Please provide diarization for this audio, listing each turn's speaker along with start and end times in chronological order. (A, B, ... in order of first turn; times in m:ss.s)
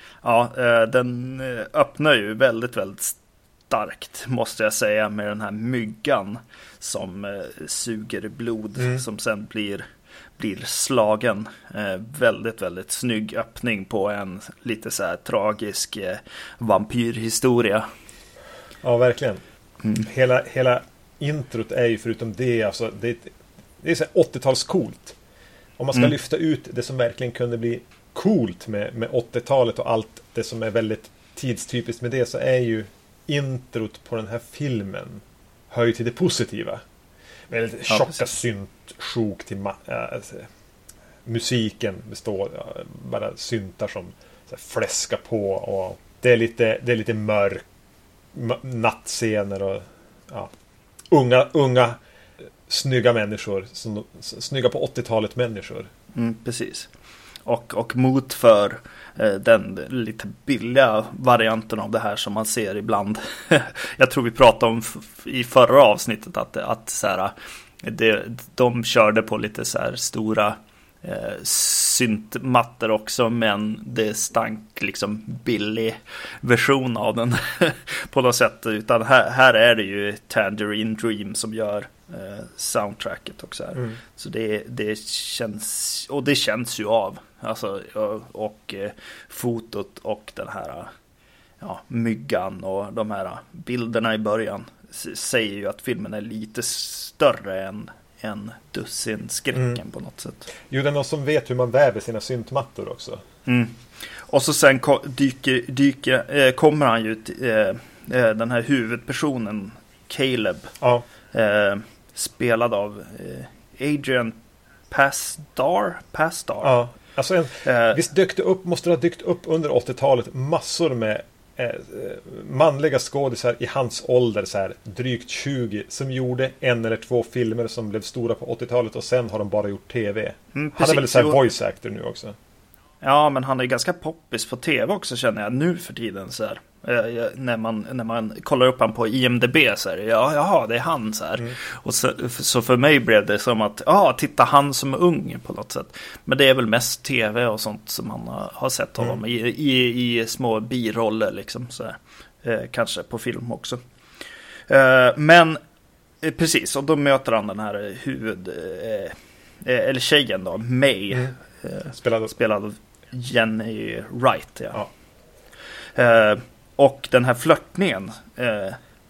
0:00.2-0:03.2 A
0:03.7-0:09.9 A
0:10.4-0:17.9 A
0:18.8-0:19.4 B
0:20.0-0:25.2 B
0:25.8-0:36.8 B
0:37.5-0:40.5 B
0:37.9-0:38.4 A
0:41.3-0:47.6 B
0:48.3-0:50.5 B
0:51.1-0:52.0 B
0:52.7-0:55.9 B
0:56.2-0:56.9 A
0:57.5-1:30.9 A
1:31.6-1:40.5 A
1:40.7-1:43.2 B
1:43.5-1:50.7 A
1:50.8-1:51.1 B
1:51.3-1:54.4 A
1:54.9-1:56.8 A
1:56.6-2:12.4 B
1:57.6-1:58.0 A
2:10.6-2:11.4 A
2:13.0-2:33.8 A
2:34.7-2:35.6 A
2:36.2-2:44.8 A
2:41.9-2:42.3 B
2:46.0-2:48.8 A